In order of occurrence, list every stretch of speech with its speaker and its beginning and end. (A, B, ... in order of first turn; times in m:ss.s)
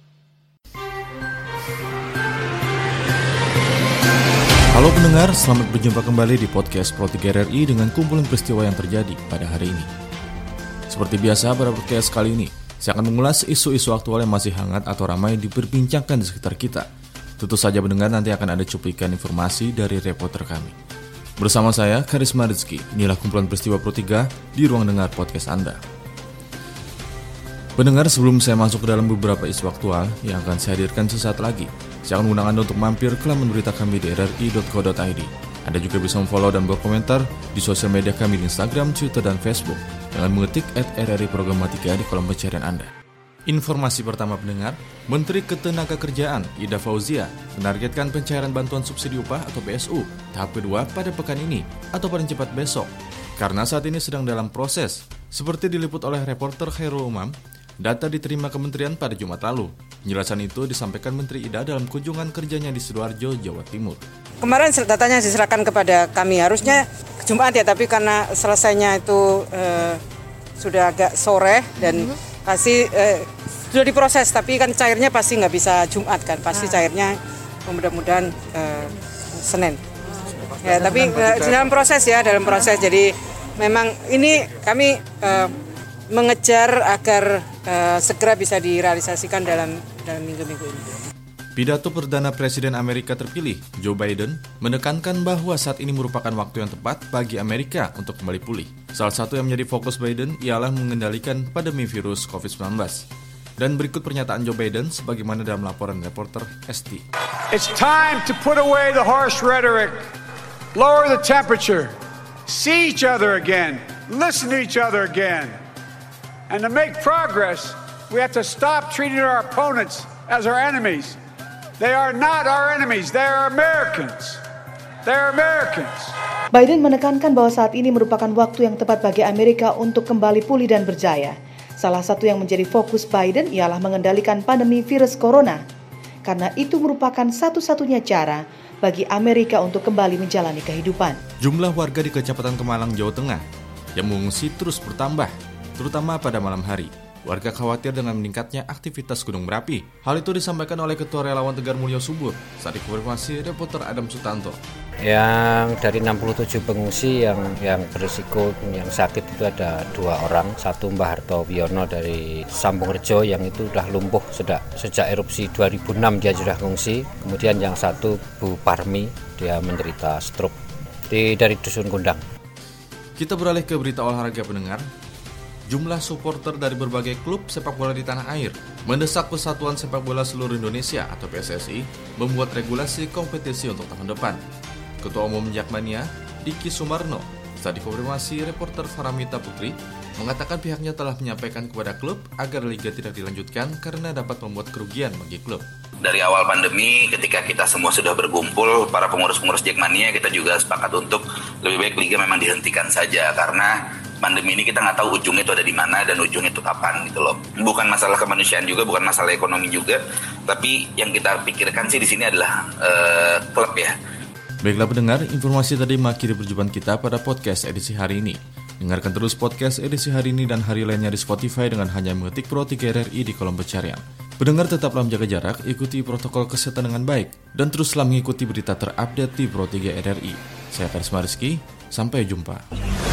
0:04.7-0:09.9 A
0:10.9-0:16.9 A
0:17.4-0:20.7 A
0:21.4-0:25.8 A
0:27.8-0:42.9 A
0:43.5-1:04.0 A
1:04.4-1:10.0 B
1:10.6-1:19.8 B
1:20.6-1:25.6 B
1:26.1-1:31.0 B
1:31.6-1:43.0 A
1:43.6-1:47.0 A
1:47.5-1:50.0 C
1:50.8-1:52.0 C
1:52.5-1:55.6 C
1:56.5-2:01.2 C
2:01.8-2:04.4 C
2:05.1-2:06.1 C
2:06.5-2:15.6 D
2:16.3-2:21.2 D
2:21.4-2:23.4 A
2:24.0-2:34.6 A
2:35.0-2:50.5 E
2:51.1-2:52.2 E
2:53.2-2:54.8 A
2:55.7-3:04.4 A
3:05.0-3:15.6 A
3:16.0-3:33.9 F
3:34.6-3:52.6 A